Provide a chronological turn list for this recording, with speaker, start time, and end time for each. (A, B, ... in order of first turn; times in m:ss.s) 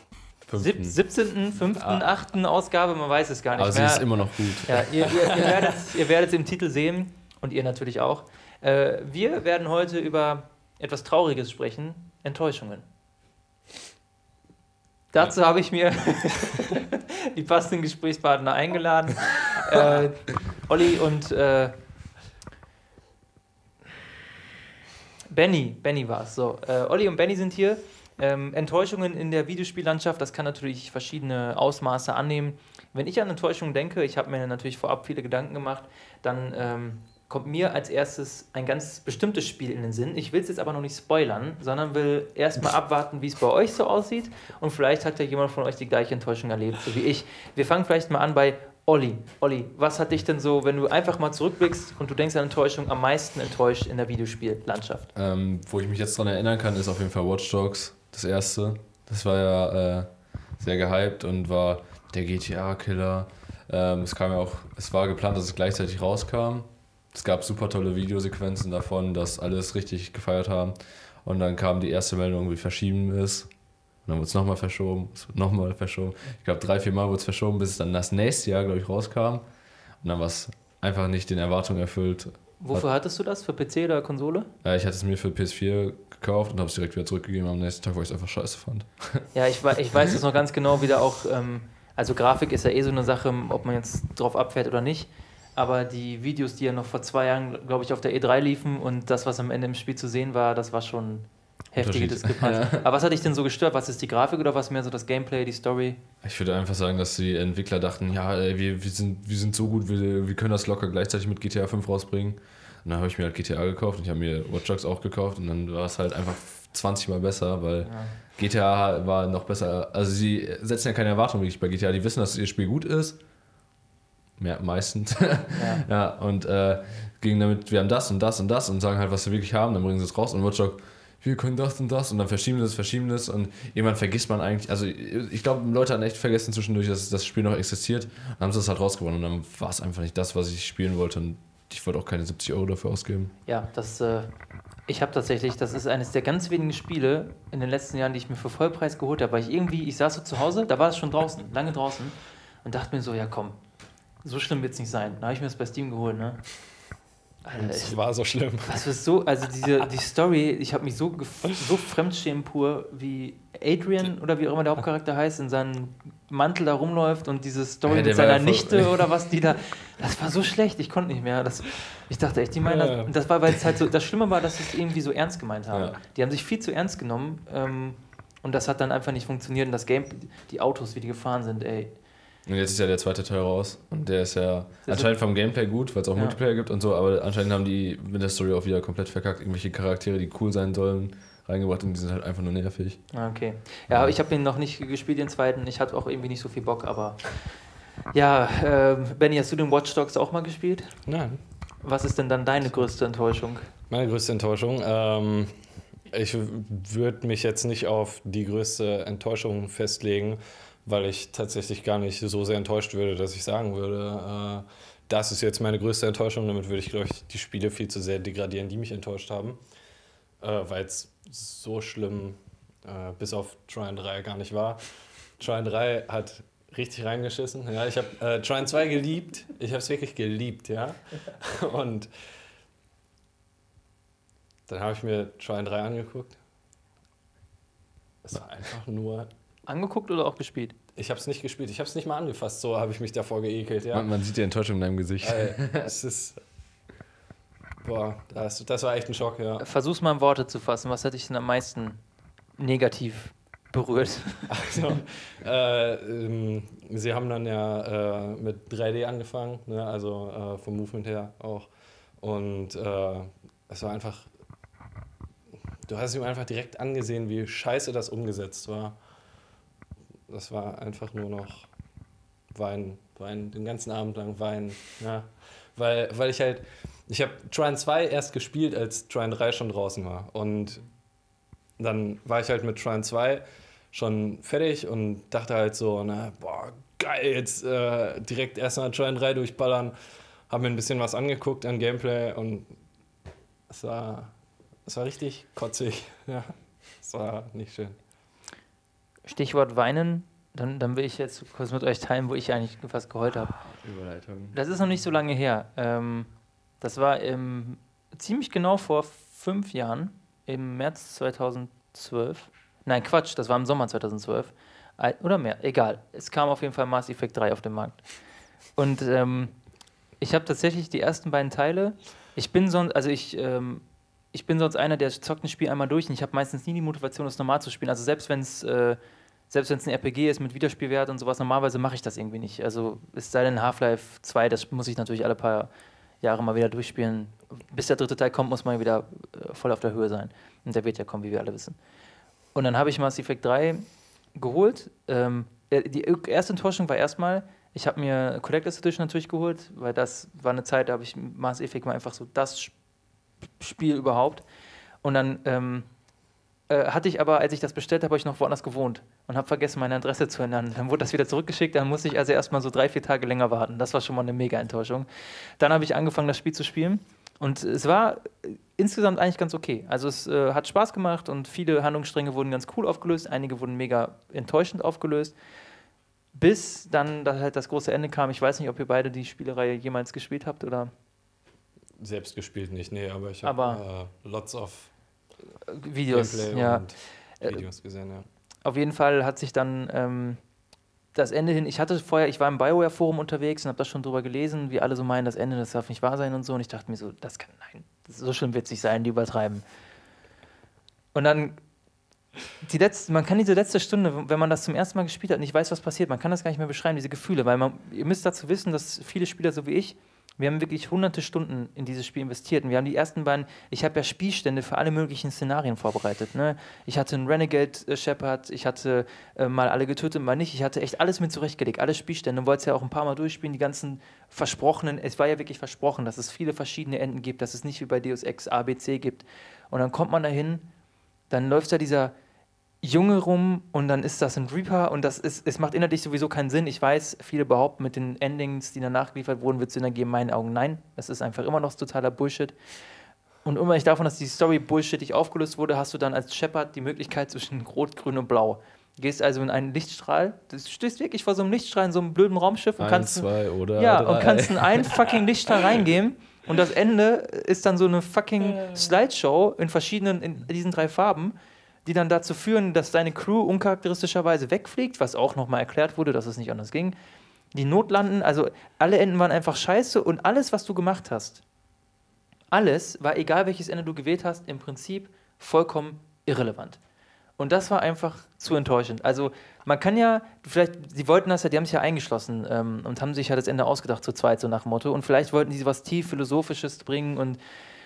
0:00.4-0:01.0 A
0:00.6-0:12.9 B
0:01.7-0:02.0 A
0:03.6-0:05.5 A
0:15.1-0:21.7 B
0:25.3-0:55.1 B
0:55.1-1:13.5 A
1:14.0-1:19.4 A
1:20.0-1:22.8 A
1:22.6-1:24.5 B
1:24.6-1:29.2 A
1:29.3-1:46.0 B
1:41.8-1:42.8 A
1:46.2-2:03.2 A
1:57.8-1:58.1 B
2:04.4-2:23.3 A
2:05.6-2:05.8 B
2:23.4-2:24.3 B
2:24.9-2:33.6 B
2:34.2-2:36.6 B
2:37.4-2:38.0 B
2:37.5-2:38.8 C
2:38.6-3:02.0 B
2:47.8-2:49.1 A
2:52.6-2:53.1 C
2:55.7-2:56.0 A
3:02.4-3:13.1 A
3:04.8-3:05.1 B
3:13.1-3:17.6 B
3:13.9-3:14.1 A
3:18.1-3:21.0 B
3:21.0-3:21.4 C
3:21.8-3:23.7 B
3:23.9-3:39.6 C
3:40.4-3:52.1 C
3:54.7-3:56.4 C
3:58.2-3:59.3 C
3:59.6-4:00.8 B
4:01.0-4:04.1 C
4:03.9-4:05.9 A
4:05.2-4:06.4 C
4:07.8-4:09.6 C
4:09.6-4:12.0 B
4:12.6-4:14.5 B
4:14.5-4:21.7 C
4:22.2-4:24.3 C
4:25.9-4:29.0 C
4:30.3-4:31.7 C
4:32.5-4:40.8 C
4:41.8-4:49.9 C
4:50.5-4:52.7 C
4:53.7-4:54.3 C
4:54.8-4:58.0 C
4:59.2-5:03.6 B
5:03.5-5:04.6 A
5:04.5-5:18.0 B
5:18.8-5:19.5 B
5:20.2-5:29.0 B
5:29.5-5:35.7 B
5:36.2-5:41.8 B
5:42.5-5:43.8 B
5:44.3-5:52.7 B
5:53.6-5:54.4 B
5:55.0-5:55.9 B
5:56.7-6:05.1 B
6:05.6-6:15.3 B
6:16.3-6:20.9 B
6:22.0-6:24.9 C
6:23.4-6:23.8 B
6:25.6-6:26.8 B
6:26.1-6:28.2 C
6:28.6-6:30.4 B
6:31.1-6:39.6 B
6:41.1-6:41.6 B
6:42.6-7:10.6 B
7:11.3-7:12.1 B
7:12.8-7:22.6 B
7:23.4-7:47.0 B
7:32.8-7:34.9 A
7:47.5-7:51.4 B
7:52.5-7:56.8 B
7:57.4-8:07.4 B